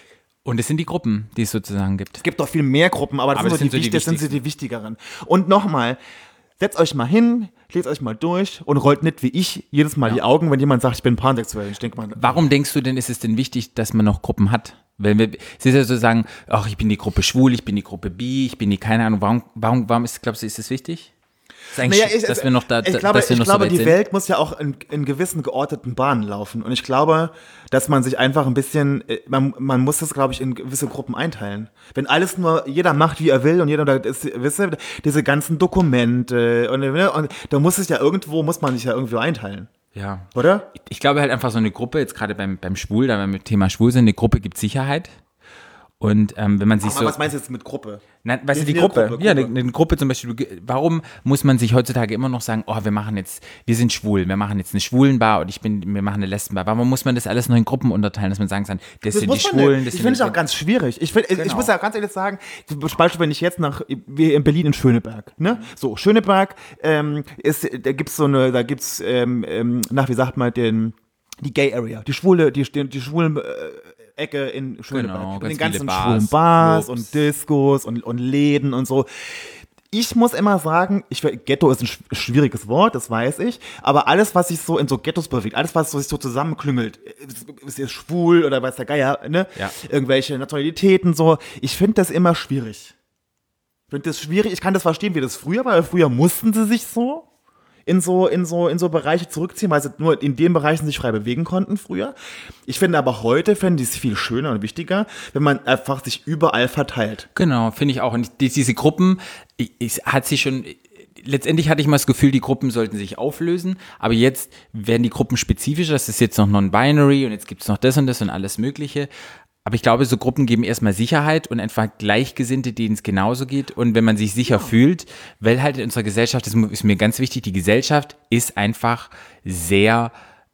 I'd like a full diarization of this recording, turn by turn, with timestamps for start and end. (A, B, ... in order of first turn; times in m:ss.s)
0:00.4-0:02.2 A
0:02.2-0:06.0 B
0:03.3-0:04.4 A
0:06.6-0:12.4 B
0:12.1-0:21.1 A
0:21.7-0:24.0 A
0:21.8-0:39.7 B
0:39.9-0:45.1 A
0:40.3-0:40.7 B
0:46.0-0:47.2 A
0:46.8-0:49.5 B
0:48.2-1:00.4 A
0:59.1-1:32.9 B
1:01.3-1:01.7 A
1:14.9-1:17.1 A
1:33.9-1:37.2 B
1:37.8-1:42.1 B
1:42.6-1:47.3 B
1:47.3-1:59.1 A
1:59.6-2:10.1 A
2:04.4-2:04.7 B